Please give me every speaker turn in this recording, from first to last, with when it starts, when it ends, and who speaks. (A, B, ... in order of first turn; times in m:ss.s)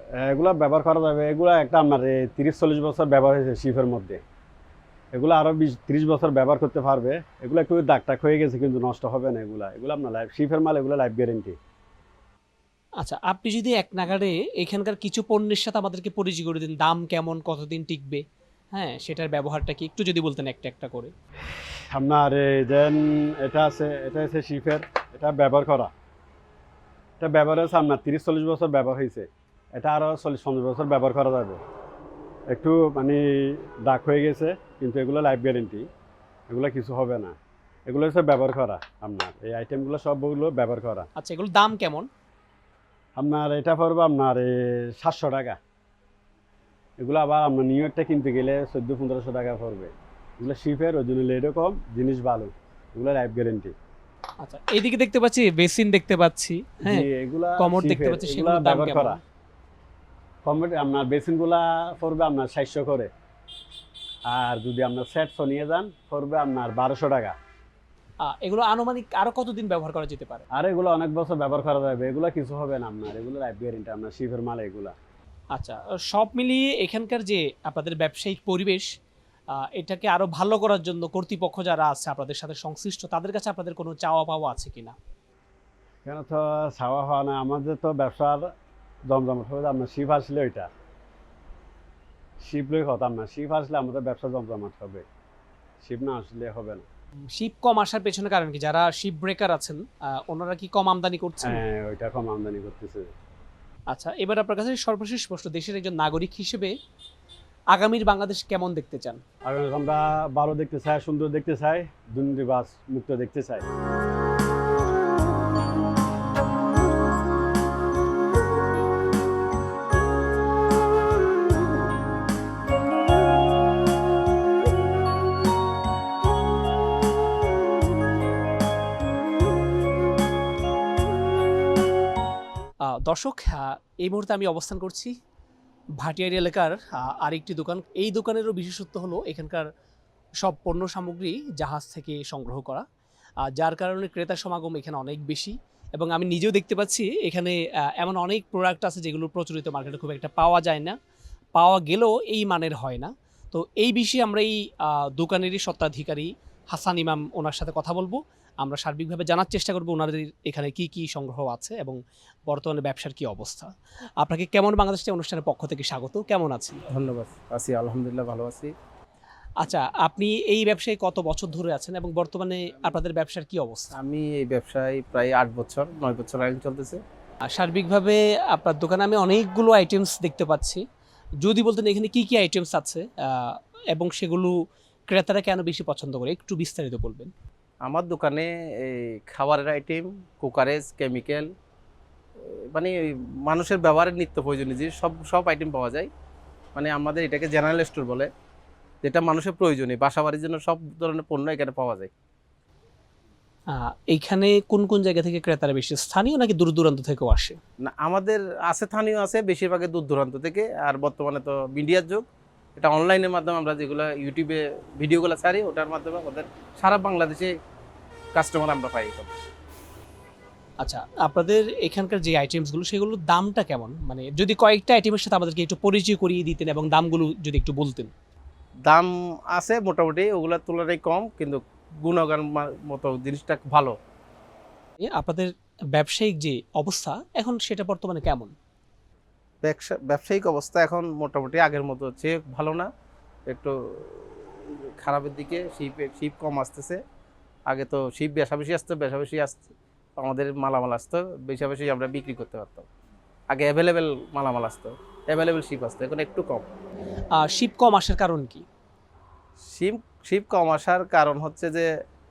0:00.2-0:04.2 A
0:05.1-0:11.6 A
0:13.0-0:21.1 B
0:21.9-0:25.9 A
0:27.2-0:31.6 A
0:32.5-0:35.9 A
0:36.5-0:37.4 A
0:37.9-0:41.1 A
0:41.2-0:42.1 B
0:43.2-0:45.6 A
0:47.0-0:53.7 A
0:54.4-0:57.1 B
0:56.8-0:59.2 A
0:57.6-0:59.2 B
1:00.4-1:03.1 A
1:04.3-1:07.3 A
1:08.2-1:10.4 B
1:10.5-1:15.0 A
1:15.5-1:18.9 B
1:19.5-1:25.0 B
1:26.0-1:28.5 A
1:29.1-1:30.7 A
1:32.4-1:35.0 A
1:35.8-1:36.8 A
1:37.3-1:41.6 B
1:41.4-1:43.1 A
1:43.9-1:46.7 B
1:47.7-1:49.2 B
1:49.4-1:53.6 A
2:12.9-2:15.1 B
2:16.0-2:19.7 B
2:20.4-2:22.8 B
2:23.4-2:31.0 B
2:31.6-2:46.8 B
2:46.9-2:48.7 C
2:49.6-2:53.9 B
2:54.0-2:57.0 C
2:57.5-3:00.8 B
3:01.4-3:04.6 B
3:05.1-3:07.3 B
3:07.8-3:11.5 C
3:12.4-3:16.1 C
3:16.7-3:18.3 C
3:19.0-3:22.1 C
3:23.7-3:27.6 B
3:27.8-3:32.2 C
3:32.8-3:37.5 C
3:38.3-3:39.3 C
3:40.8-3:48.1 B
3:48.9-3:54.0 C
3:55.1-3:58.5 B
3:59.6-4:02.9 C
4:03.5-4:07.0 C
4:07.7-4:09.7 C
4:10.2-4:12.9 C
4:13.5-4:16.7 C
4:17.3-4:18.6 B
4:19.7-4:21.9 C